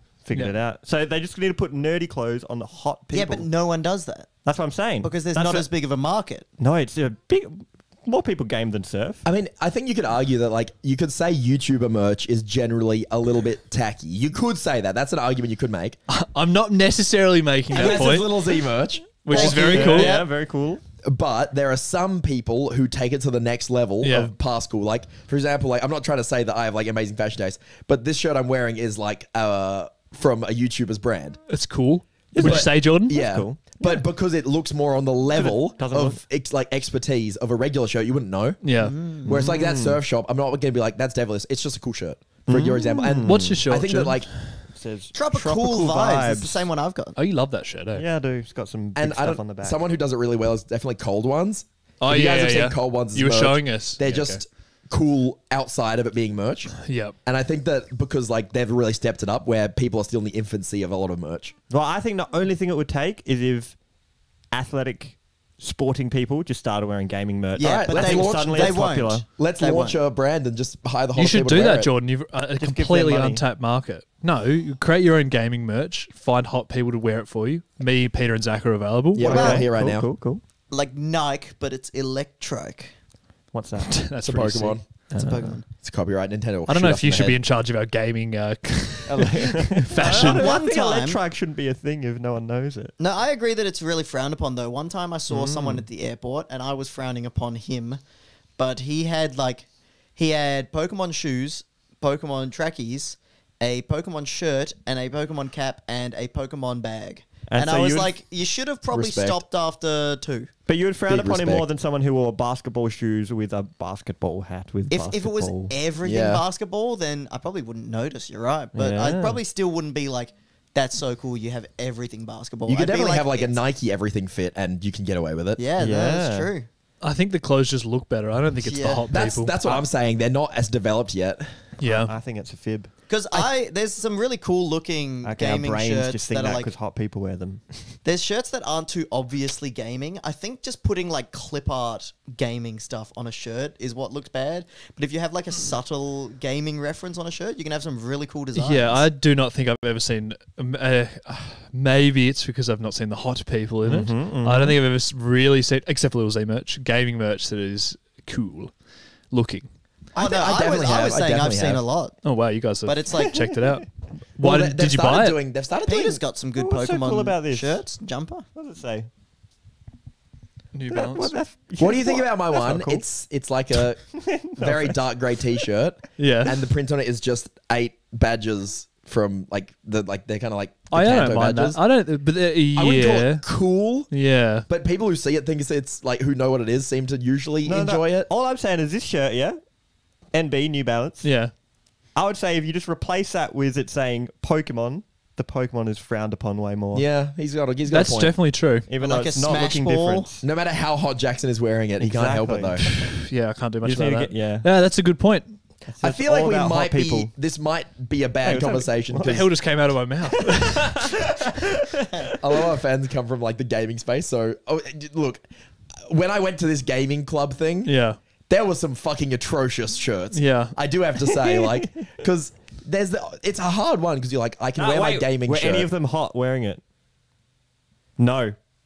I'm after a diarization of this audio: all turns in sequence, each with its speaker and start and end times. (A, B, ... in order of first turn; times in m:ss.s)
0:00.2-0:03.5 A
0:03.1-0:04.3 B
0:04.4-0:05.7 A
0:05.0-0:06.5 B
0:06.6-0:09.2 A
0:09.2-0:16.0 C
0:16.1-0:18.6 D
0:17.7-0:19.4 C
0:17.7-0:18.1 B
0:19.2-0:20.2 D
0:19.3-0:20.3 B
0:19.3-0:20.8 A
0:21.0-0:31.4 C
0:24.0-0:24.3 D
0:31.5-0:33.2 D
0:32.3-0:33.8 A
0:32.4-0:44.3 C
0:35.4-0:36.2 A
0:38.6-0:39.0 D
0:38.7-0:39.3 B
0:39.2-0:40.0 A
0:42.5-0:43.6 A
0:43.2-0:44.7 D
0:44.6-0:46.7 A
0:45.1-0:47.2 B
0:47.2-0:48.1 D
0:48.0-0:49.8 A
0:49.0-1:01.5 C
0:52.0-0:54.4 D
0:56.8-0:57.2 D
1:01.7-1:03.8 A
1:04.5-1:09.2 A
1:07.6-1:10.0 B
1:07.6-1:11.9 C
1:11.2-1:19.6 D
1:12.6-1:13.4 A
1:19.1-1:20.1 C
1:19.2-1:20.4 A
1:19.3-1:19.7 B
1:20.7-1:23.0 B
1:23.5-1:24.1 A
1:23.8-1:25.0 D
1:24.2-1:24.9 C
1:25.1-1:25.6 A
1:25.1-1:25.7 B
1:25.8-1:27.4 C
1:26.7-1:30.5 D
1:29.1-1:33.0 A
1:30.1-1:31.2 B
1:33.0-1:38.0 B
1:35.3-1:35.9 A
1:38.6-1:50.5 B
1:47.5-1:48.1 A
1:48.9-1:49.4 C
1:50.7-1:55.7 A
1:51.1-1:51.6 C
1:54.9-2:03.6 B
1:56.0-1:56.4 C
1:58.8-1:59.4 A
2:02.7-2:05.6 C
2:05.6-2:06.7 B
2:05.8-2:06.5 A
2:07.0-2:09.8 D
2:08.6-2:09.1 B
2:09.1-2:11.6 C
2:11.8-2:12.1 D
2:11.8-2:13.4 A
2:13.1-2:16.7 B
2:15.2-2:18.0 A
2:18.0-2:29.1 B
2:28.6-2:39.7 D
2:33.8-2:34.8 A
2:40.2-2:41.8 C
2:40.2-2:42.2 B
2:42.2-2:45.4 D
2:42.8-2:43.5 B
2:44.4-2:46.2 C
2:45.9-2:48.5 B
2:46.6-2:47.8 A
2:48.6-2:49.1 A
2:50.7-2:51.4 D
2:50.9-2:53.1 A
2:51.8-3:01.8 C
2:53.7-2:55.1 A
2:56.2-2:56.6 D
3:00.9-3:03.5 D
3:02.7-3:08.3 C
3:04.1-3:04.7 D
3:07.6-3:09.7 A
3:10.3-3:11.5 A
3:11.2-3:11.5 D
3:12.1-3:17.1 A
3:16.9-3:18.4 C
3:17.9-3:18.9 D
3:18.9-3:20.4 A
3:19.0-3:20.3 B
3:20.4-3:22.8 C
3:22.0-3:22.8 A
3:22.8-3:25.8 D
3:23.8-3:24.7 A
3:25.9-3:27.3 A
3:26.0-3:29.5 C
3:28.4-3:29.4 A
3:29.1-3:31.3 D
3:32.4-3:35.4 C
3:36.0-3:38.0 C
3:37.8-3:38.2 D
3:38.5-3:45.9 C
3:40.3-3:40.8 D
3:41.2-3:42.1 A
3:44.8-3:46.8 A
3:48.2-3:48.6 A